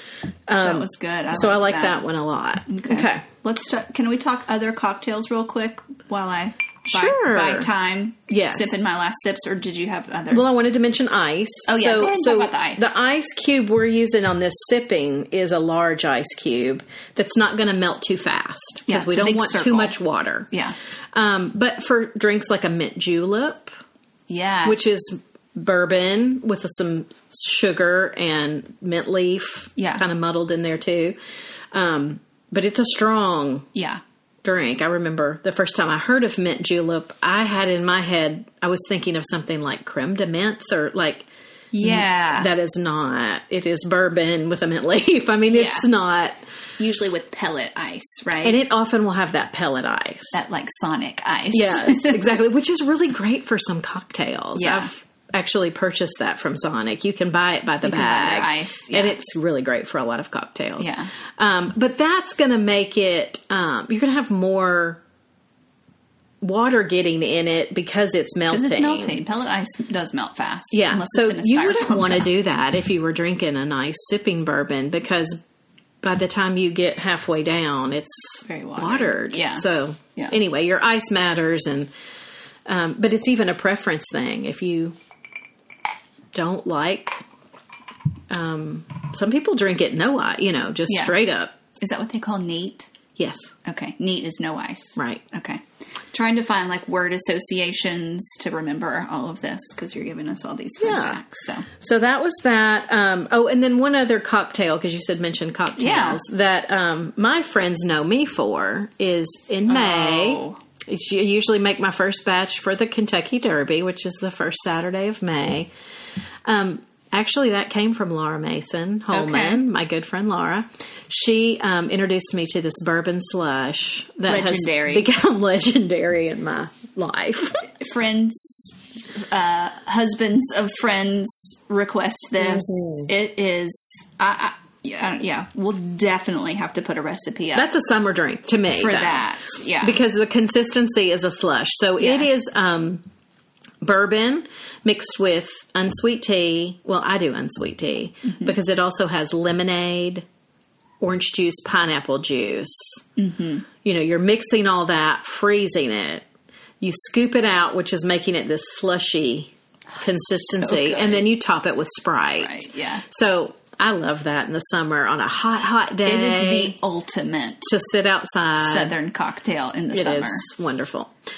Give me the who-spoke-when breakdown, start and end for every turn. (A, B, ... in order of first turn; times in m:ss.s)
0:00.5-0:03.2 A
0:00.6-0:02.0 B
0:02.7-0:10.5 B
0:06.9-0:07.7 A
0:08.3-0:08.8 A
0:10.3-0:20.5 A
0:11.7-0:12.9 B
0:18.9-0:20.0 B
0:21.1-0:23.7 A
0:24.3-0:24.8 B
0:24.6-0:31.2 A
0:29.8-0:30.0 B
0:31.7-0:33.7 A
0:33.8-0:34.0 B
0:34.4-0:41.3 A
0:41.7-0:42.5 B
0:41.8-0:46.4 A
0:45.5-0:45.9 B
0:46.8-0:48.6 B
0:48.4-0:50.4 A
0:50.3-0:52.4 B
0:51.5-1:05.0 A
0:54.6-0:54.9 B
0:57.8-0:59.2 B
1:00.8-1:01.1 B
1:06.4-1:09.2 A
1:08.5-1:12.3 B
1:10.7-1:15.4 A
1:16.0-1:21.9 A
1:18.4-1:19.7 B
1:22.7-1:25.0 A
1:26.3-1:27.2 A
1:28.3-1:31.5 A
1:30.9-1:31.2 B
1:31.8-1:32.9 B
1:33.2-1:33.5 A
1:33.6-1:35.6 B
1:35.0-1:35.2 A
1:36.1-1:41.7 B
1:40.8-1:41.2 A
1:41.8-1:55.7 A
1:45.8-1:46.2 B
1:49.7-1:50.6 B
1:56.4-2:07.7 A
1:59.1-1:59.6 B
2:04.3-2:05.1 B
2:07.8-2:17.7 B
2:12.4-2:13.1 A
2:17.5-2:19.3 A
2:18.8-2:20.0 B
2:19.8-2:23.0 A
2:22.0-2:22.3 B
2:23.8-2:30.3 A
2:28.2-2:28.6 B
2:31.0-2:33.0 A
2:33.2-2:33.6 B
2:33.8-2:36.3 A
2:36.8-2:46.8 A
2:40.0-2:41.3 B
2:42.4-2:43.0 B
2:46.0-2:47.7 B
2:47.6-2:49.0 A
2:48.6-2:50.5 B
2:49.9-2:51.1 A